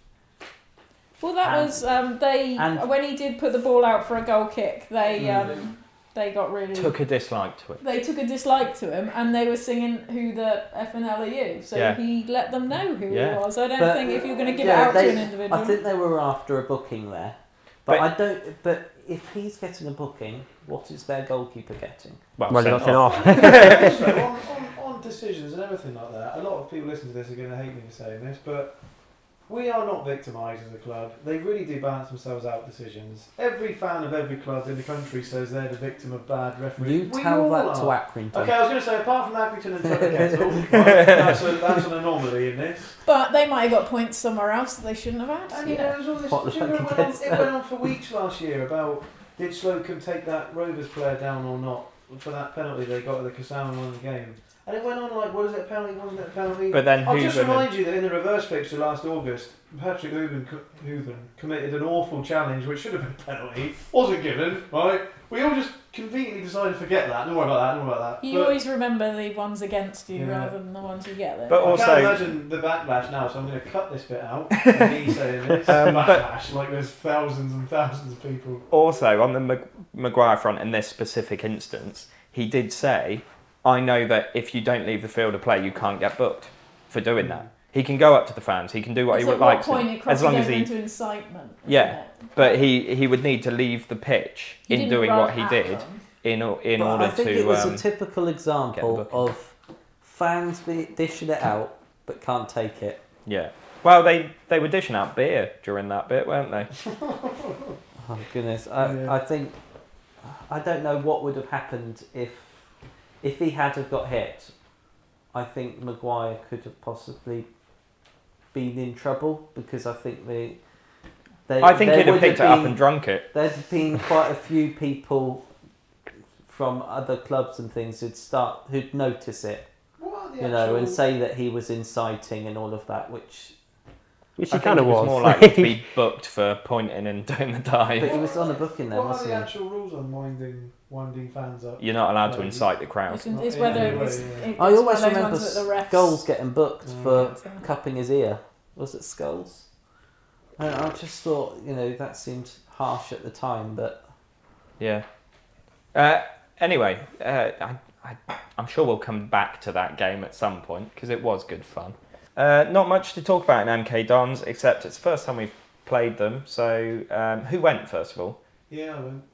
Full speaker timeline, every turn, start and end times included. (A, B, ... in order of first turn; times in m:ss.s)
0:01.2-0:07.2 A
0:01.4-0:02.9 B
0:05.2-0:05.7 B
0:06.7-0:07.8 C
0:07.8-0:15.8 A
0:11.7-0:12.0 C
0:13.1-0:13.4 C
0:13.7-0:22.8 B
0:14.2-0:15.3 D
0:22.4-0:24.1 C
0:22.5-0:23.9 E
0:22.7-0:43.0 D
0:23.4-0:23.8 B
0:36.8-0:38.6 B
0:39.9-0:41.3 B
0:40.9-0:41.2 C
0:43.0-0:46.0 A
0:45.5-1:08.6 D
0:46.2-0:47.8 B
0:56.7-0:57.7 C
1:08.2-1:12.0 A
1:10.1-1:10.6 D
1:11.5-1:12.2 C
1:11.6-1:18.7 D
1:15.6-1:16.3 C
1:18.7-1:30.8 C
1:27.2-1:27.5 D
1:29.1-1:32.7 A
1:31.6-1:39.3 C
1:34.7-1:36.0 A
1:36.8-1:43.0 B
1:43.2-1:46.9 C
1:46.9-1:47.7 D
1:48.0-1:58.0 B
1:48.8-1:49.1 D
1:58.5-2:05.7 B
2:01.6-2:03.3 C
2:06.4-2:13.9 B
2:10.0-2:11.0 D
2:14.4-2:15.9 E
2:14.5-2:18.2 C
2:17.9-2:19.5 B
2:18.0-2:22.7 D
2:21.8-2:23.5 C
2:23.1-2:26.4 A
2:23.3-2:24.5 D
2:23.7-2:29.9 B
2:26.8-2:27.4 D
2:26.9-2:27.7 A
2:30.6-2:34.2 B
2:34.8-2:48.4 C
2:48.7-2:49.2 D